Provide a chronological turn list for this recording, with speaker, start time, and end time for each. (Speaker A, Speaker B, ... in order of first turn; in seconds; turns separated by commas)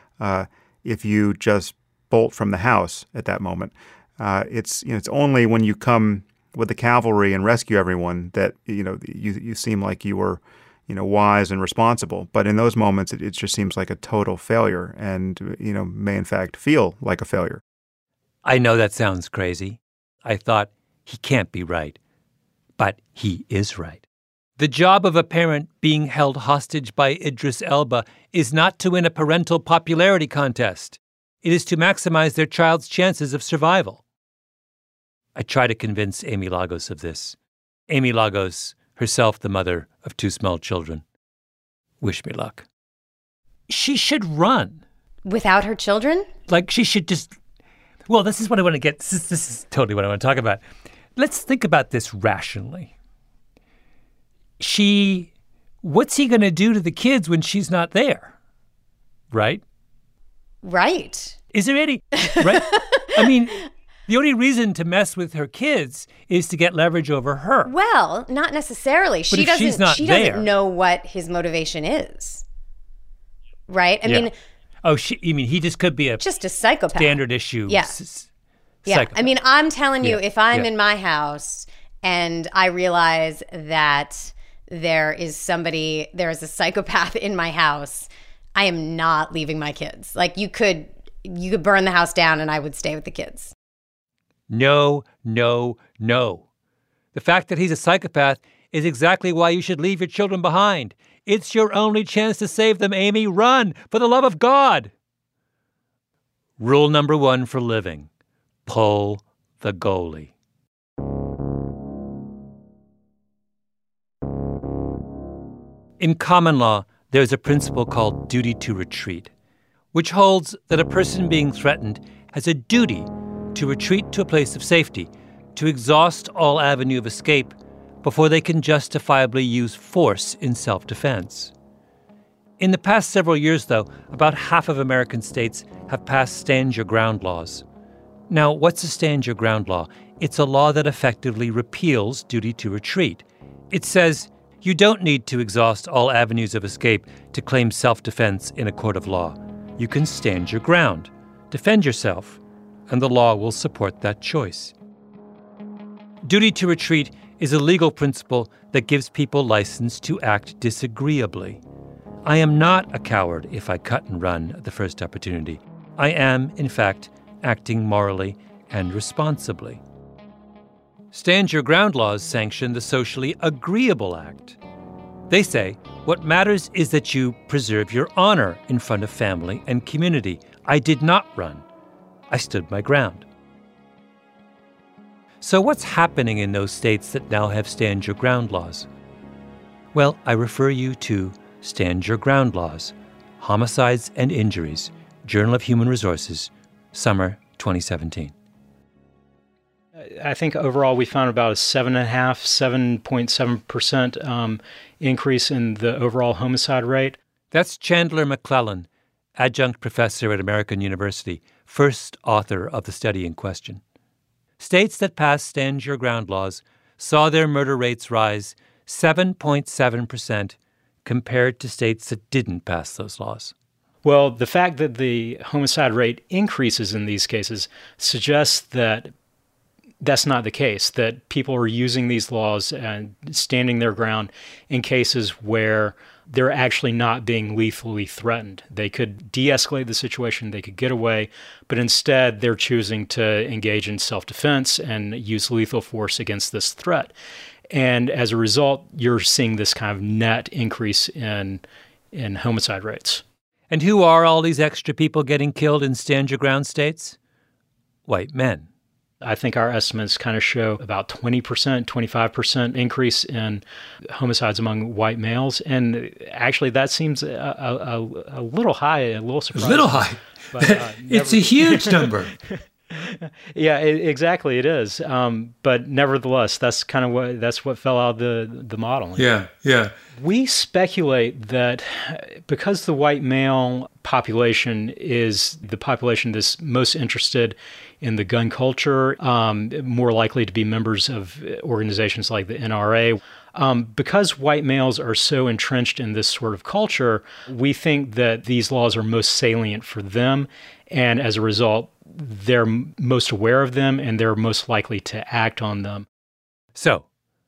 Speaker A: 0.2-17.6, Speaker B: 18.4-22.0, Speaker B: 22.8-24.0, Speaker B: 24.6-34.0, Speaker B: 35.4-37.4, Speaker B: 37.9-41.0, Speaker B: 42.0-42.7, Speaker B: 43.7-44.8, Speaker C: 45.2-46.3, Speaker B: 46.5-47.4, Speaker B: 48.1-50.6, Speaker B: 51.2-52.9, Speaker B: 54.6-55.3, Speaker B: 55.8-58.4, Speaker B: 59.3-59.6, Speaker C: 60.6-61.4, Speaker B: 61.5-67.7, Speaker C: 62.2-63.3, Speaker C: 67.7-72.4, Speaker B: 69.3-70.5, Speaker C: 73.7-74.3, Speaker B: 74.0-74.3, Speaker B: 74.8-76.3, Speaker C: 76.2-78.0, Speaker B: 76.9-78.3, Speaker B: 78.9-79.3, Speaker C: 78.9-93.5, Speaker B: 80.0-80.7, Speaker B: 94.5-96.5, Speaker B: 97.1-104.9, Speaker B: 106.6-108.1, Speaker B: 108.7-110.3, Speaker B: 116.0-119.3, Speaker B: 119.9-131.5, Speaker B: 132.6-137.6, Speaker B: 138.3-154.7, Speaker B: 156.2-161.6, Speaker B: 162.2-169.8, Speaker B: 171.1-174.6, Speaker B: 175.3-181.7, Speaker B: 182.3-183.3, Speaker B: 185.4-188.9, Speaker B: 189.9-198.3, Speaker D: 200.0-207.2, Speaker B: 207.5-213.8, Speaker B: 214.6-223.5, Speaker D: 224.0-229.1, Speaker D: 230.0-247.1, Speaker D: 247.7-253.2, Speaker B: 253.7-257.2, Speaker B: 258.1-258.7, Speaker D: 259.2-272.4, Speaker B: 269.6-272.3, Speaker D: 272.9-279.3, Speaker B: 279.1-279.9, Speaker D: 280.1-306.1, Speaker B: 306.8-307.1